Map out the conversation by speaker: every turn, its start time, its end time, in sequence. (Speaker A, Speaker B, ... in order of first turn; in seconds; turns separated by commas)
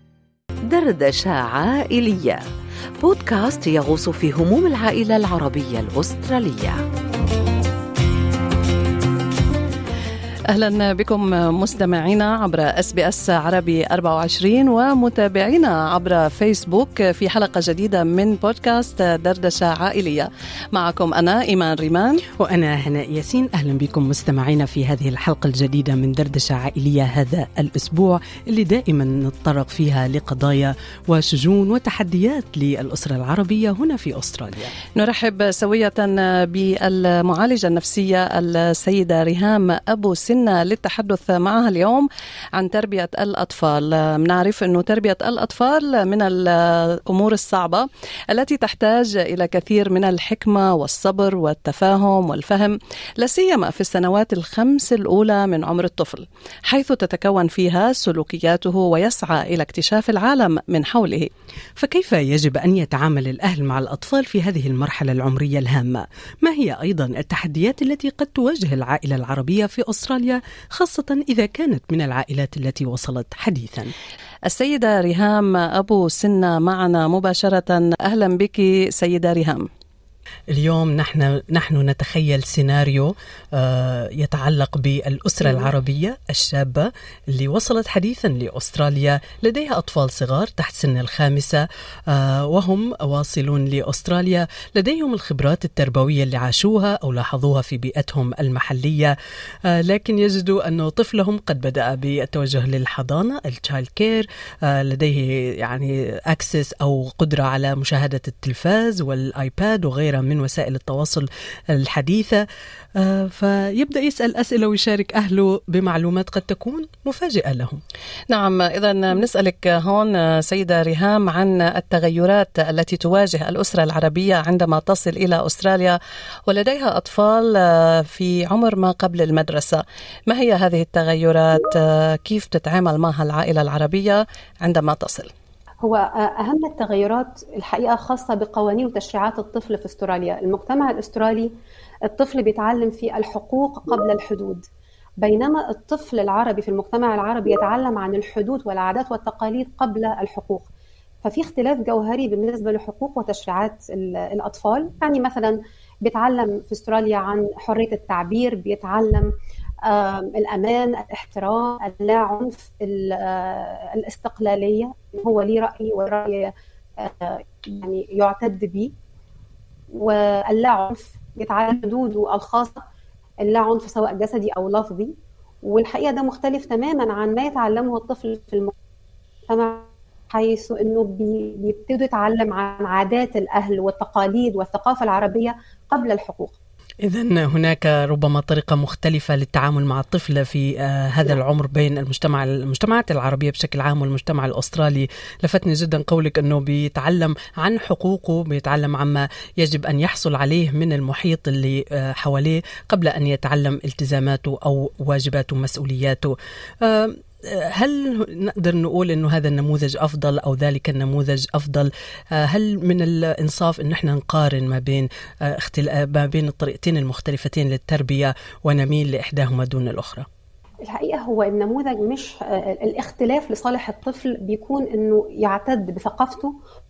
Speaker A: 0.7-2.4, Speaker A: 3.0-6.8, Speaker B: 10.5-22.2, Speaker C: 22.4-34.7, Speaker B: 35.0-61.3, Speaker C: 61.8-73.9, Speaker B: 74.5-79.7, Speaker C: 80.5-99.1, Speaker C: 99.7-112.4, Speaker C: 113.0-117.8, Speaker B: 118.3-135.3, Speaker D: 135.8-141.5, Speaker D: 142.1-144.6, Speaker D: 145.2-150.7, Speaker D: 151.2-159.3, Speaker D: 159.9-168.9, Speaker D: 169.9-172.8, Speaker D: 173.4-175.1, Speaker D: 175.6-178.7, Speaker D: 179.5-186.6, Speaker C: 187.0-220.3, Speaker D: 220.9-226.5